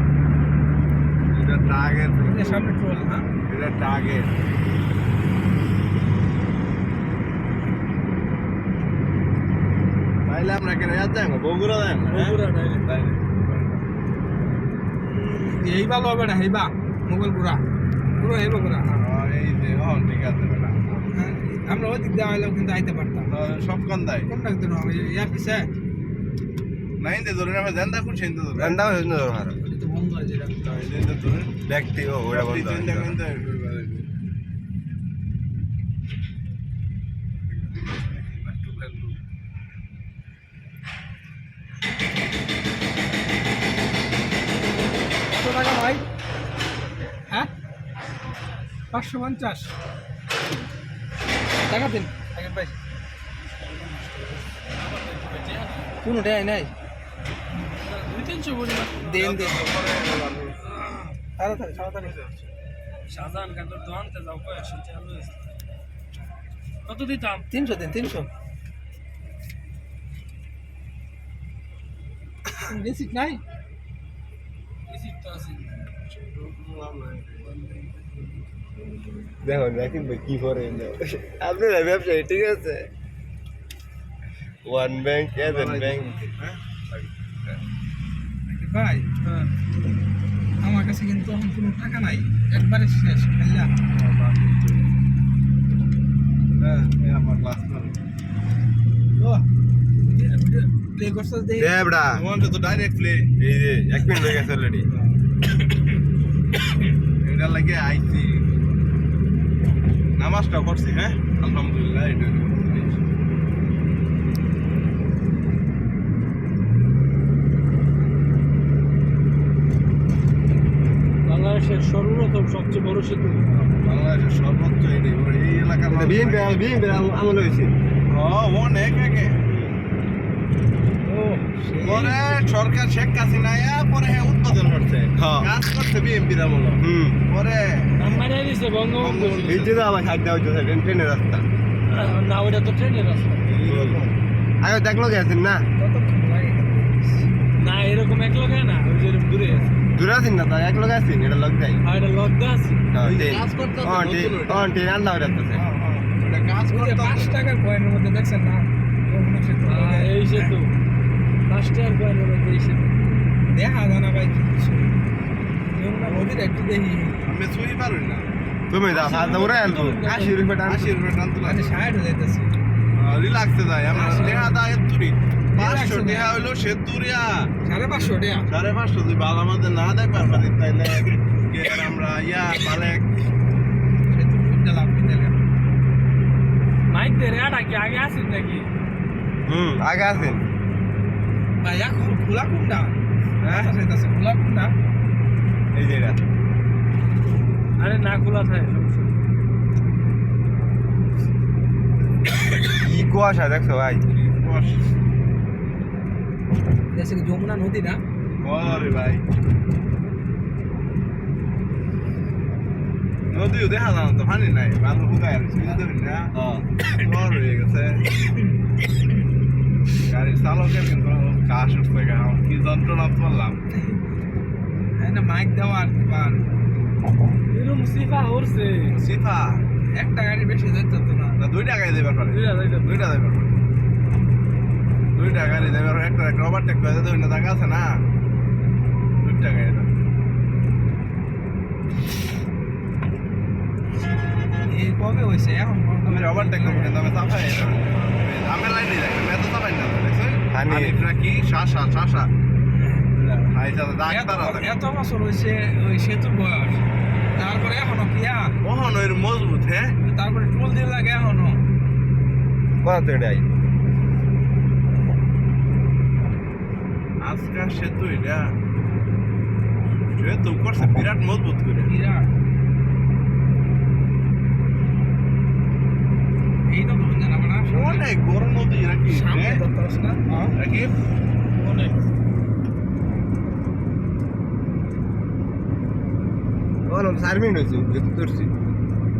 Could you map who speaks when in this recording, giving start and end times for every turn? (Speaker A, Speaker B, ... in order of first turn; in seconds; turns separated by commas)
Speaker A: 1.3-2.7, Speaker B: 2.2-3.2, Speaker A: 3.5-4.3, Speaker A: 10.3-13.8, Speaker C: 12.1-12.8, Speaker B: 15.3-17.6, Speaker A: 18.1-21.1, Speaker B: 18.2-18.9, Speaker B: 21.1-23.3, Speaker A: 23.3-24.3, Speaker B: 24.3-25.7, Speaker A: 27.0-28.9, Speaker D: 28.6-29.6, Speaker B: 29.6-30.6, Speaker A: 30.6-31.5, Speaker D: 31.6-33.2, Speaker A: 32.3-34.1, Speaker A: 37.5-39.2, Speaker B: 45.3-46.0, Speaker B: 48.9-49.7, Speaker B: 51.7-52.7, Speaker C: 53.6-56.0, Speaker B: 56.0-56.7, Speaker C: 57.7-59.2, Speaker B: 59.0-59.6, Speaker A: 59.1-60.6, Speaker C: 60.6-61.2, Speaker B: 61.4-62.2, Speaker A: 61.9-62.4, Speaker C: 63.1-65.4, Speaker C: 66.8-67.5, Speaker B: 67.5-68.3, Speaker B: 72.6-73.4, Speaker C: 74.9-75.8, Speaker A: 76.0-77.5, Speaker D: 79.4-82.9, Speaker D: 84.6-86.2, Speaker A: 85.3-87.5, Speaker B: 88.5-89.1, Speaker C: 89.2-89.5, Speaker B: 90.6-93.7, Speaker A: 93.9-94.9, Speaker A: 96.6-98.0, Speaker B: 99.2-99.4, Speaker B: 100.1-101.7, Speaker D: 101.6-102.2, Speaker A: 102.1-103.3, Speaker D: 103.4-104.8, Speaker A: 107.2-108.4, Speaker A: 110.2-113.0, Speaker C: 121.2-123.4, Speaker A: 123.5-126.7, Speaker D: 125.9-127.7, Speaker A: 128.1-129.5, Speaker D: 129.5-129.7, Speaker B: 131.0-132.3, Speaker A: 131.8-138.3, Speaker D: 135.2-135.5, Speaker D: 136.8-137.2, Speaker C: 138.0-139.6, Speaker A: 139.0-139.9, Speaker D: 139.5-141.4, Speaker C: 141.9-143.4, Speaker A: 143.4-144.1, Speaker D: 143.6-144.1, Speaker D: 144.6-145.7, Speaker B: 145.8-147.3, Speaker C: 147.6-149.7, Speaker D: 149.9-151.8, Speaker C: 151.8-152.8, Speaker D: 152.9-155.6, Speaker A: 153.0-154.8, Speaker A: 155.5-157.4, Speaker B: 156.7-160.5, Speaker C: 159.7-160.7, Speaker C: 161.4-163.0, Speaker B: 163.4-164.9, Speaker C: 165.7-166.3, Speaker B: 166.0-167.2, Speaker A: 167.2-168.3, Speaker D: 168.7-170.9, Speaker C: 168.9-170.4, Speaker A: 170.6-171.6, Speaker B: 171.4-172.5, Speaker A: 172.9-177.5, Speaker B: 173.9-174.6, Speaker C: 174.0-174.4, Speaker B: 175.5-176.4, Speaker B: 177.6-178.5, Speaker A: 178.5-183.2, Speaker B: 184.1-185.3, Speaker C: 186.9-188.7, Speaker D: 189.4-190.4, Speaker A: 190.1-190.4, Speaker B: 191.6-192.9, Speaker A: 193.4-193.7, Speaker B: 193.5-194.7, Speaker D: 195.7-196.2, Speaker C: 197.8-199.2, Speaker D: 202.7-204.0, Speaker A: 204.1-204.9, Speaker B: 206.9-208.0, Speaker A: 208.4-209.2, Speaker A: 213.3-216.3, Speaker D: 216.3-216.7, Speaker A: 216.9-218.1, Speaker A: 220.0-223.6, Speaker B: 223.7-224.0, Speaker B: 225.0-226.5, Speaker C: 227.5-228.9, Speaker A: 228.9-229.6, Speaker B: 229.9-231.4, Speaker A: 231.4-233.5, Speaker C: 232.3-232.9, Speaker A: 235.1-238.0, Speaker A: 239.2-239.9, Speaker B: 244.6-247.0, Speaker A: 246.1-252.3, Speaker D: 250.5-251.0, Speaker B: 252.7-253.1, Speaker A: 253.1-254.7, Speaker B: 254.1-258.5, Speaker A: 258.6-259.9, Speaker B: 260.0-261.6, Speaker D: 262.8-263.4, Speaker A: 267.2-268.5, Speaker A: 270.1-271.9, Speaker B: 271.9-272.3, Speaker B: 276.7-278.1, Speaker A: 277.7-279.6, Speaker B: 279.1-280.6, Speaker A: 280.6-280.9, Speaker B: 281.6-282.0, Speaker D: 286.9-288.5